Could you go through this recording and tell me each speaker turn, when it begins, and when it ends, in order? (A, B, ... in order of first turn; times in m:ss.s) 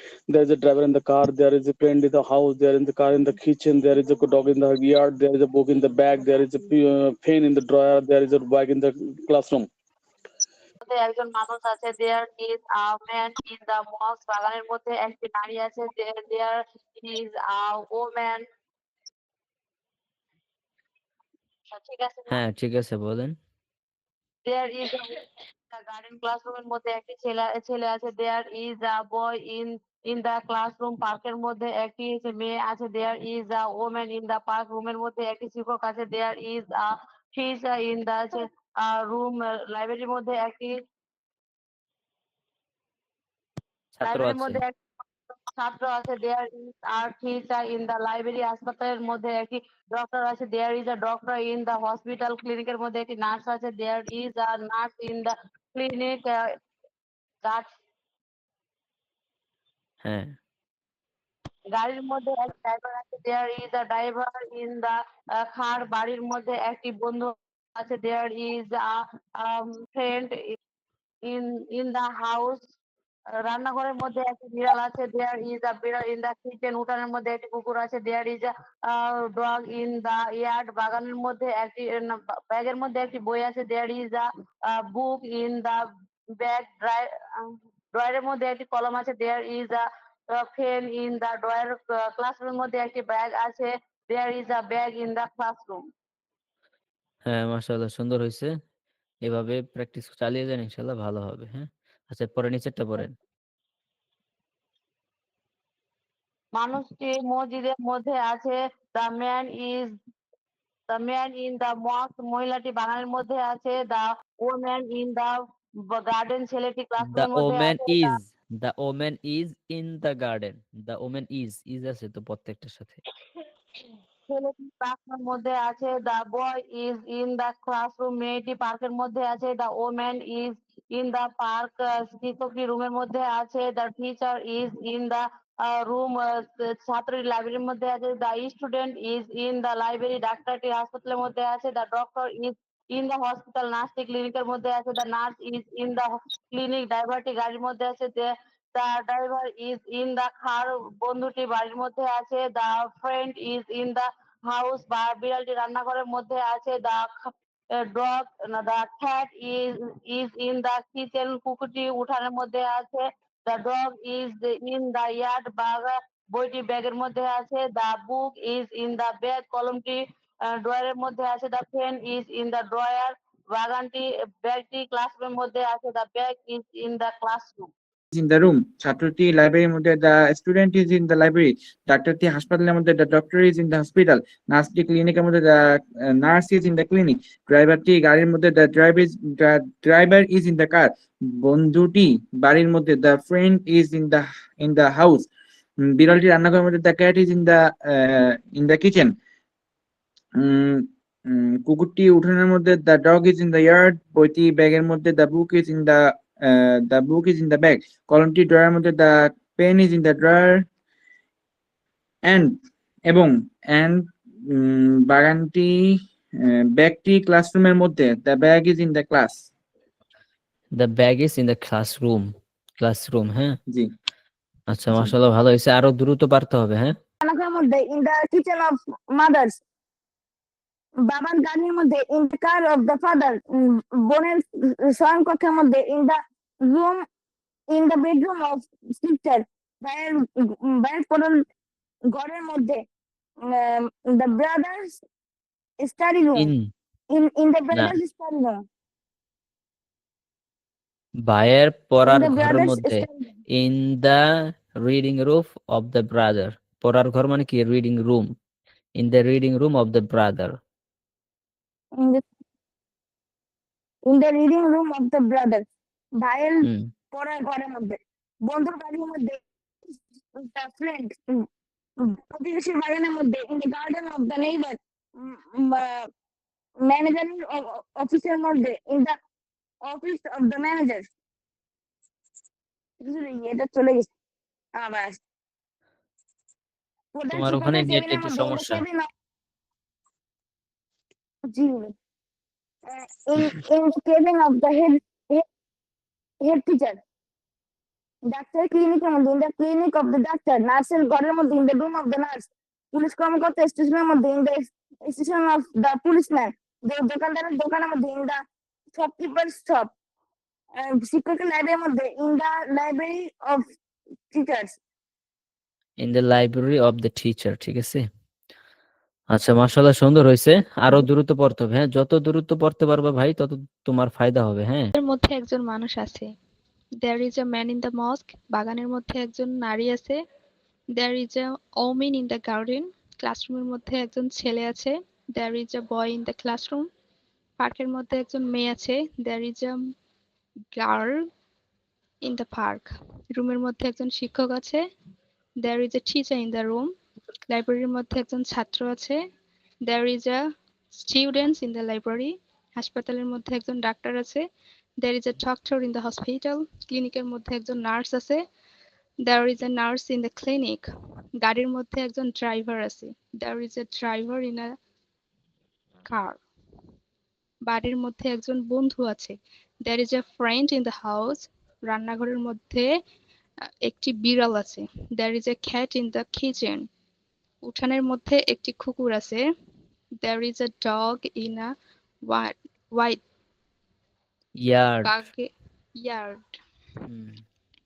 0:00.3-0:09.7 A
0:10.8-0:18.4 B
0:21.7-0:22.4 B
0:22.3-0:23.4 C
0:24.4-0:25.1 B
0:25.7-0:40.7 B
0:43.9-0:44.6 C
0:44.0-0:44.8 B
0:45.5-0:56.4 B
1:00.0-1:00.3 C
1:01.7-1:04.9 B
1:05.4-1:10.3 B
1:11.2-1:12.6 B
1:13.4-1:25.8 B
1:26.4-1:35.8 B
1:37.2-1:38.5 C
1:39.2-1:43.1 C
1:46.5-1:49.9 B
1:50.9-1:55.3 B
1:55.9-1:58.1 B
1:57.0-2:03.0 C
2:04.3-2:57.7 B
2:58.1-3:10.9 D
3:11.4-3:15.3 D
3:15.8-3:19.1 D
3:20.4-3:30.6 D
3:32.2-3:35.7 D
3:36.7-3:39.4 D
3:40.8-3:42.3 C
3:42.8-3:43.6 C
3:44.7-3:46.9 C
3:47.2-3:49.6 E
3:51.0-3:57.0 E
3:57.7-4:01.4 E
4:02.1-4:02.8 E
4:03.4-4:05.0 E
4:05.8-4:06.5 E
4:06.4-4:06.7 C
4:07.1-4:08.6 E
4:11.2-4:14.2 C
4:12.0-4:13.3 E
4:14.8-4:18.3 C
4:19.0-4:20.6 C
4:22.0-4:22.2 E
4:24.0-4:25.6 E
4:26.2-4:29.4 E
4:30.3-4:31.5 E
4:32.0-4:36.1 E
4:36.8-4:39.2 E
4:39.8-4:41.1 E
4:43.0-4:44.1 E
4:44.8-4:45.2 E
4:47.1-4:49.1 E
4:47.3-4:48.8 C
4:51.5-4:51.9 E
4:52.9-4:55.4 E
4:56.4-4:57.0 E
4:58.3-5:08.4 E
5:08.9-5:09.9 E
5:10.8-5:13.6 E
5:14.3-5:14.8 E
5:16.0-5:18.0 C
5:19.3-5:24.9 C
5:25.0-5:26.2 F
5:27.0-5:30.2 F
5:31.0-5:36.9 F
5:37.6-5:39.8 F
5:40.8-5:41.2 F
5:42.2-5:44.8 F
5:45.6-5:46.9 F
5:47.5-5:49.2 F
5:49.9-5:50.4 F
5:50.9-5:54.4 F
5:55.0-5:58.4 F
5:59.2-6:00.8 F
6:01.4-6:04.7 F
6:06.0-6:06.4 F
6:07.7-6:12.8 F
6:13.9-6:16.9 F
6:17.6-6:19.4 F
6:20.2-6:21.7 F
6:22.3-6:23.2 F
6:24.6-6:25.1 C
6:25.0-6:25.5 F
6:26.0-6:26.4 F
6:27.0-6:27.4 C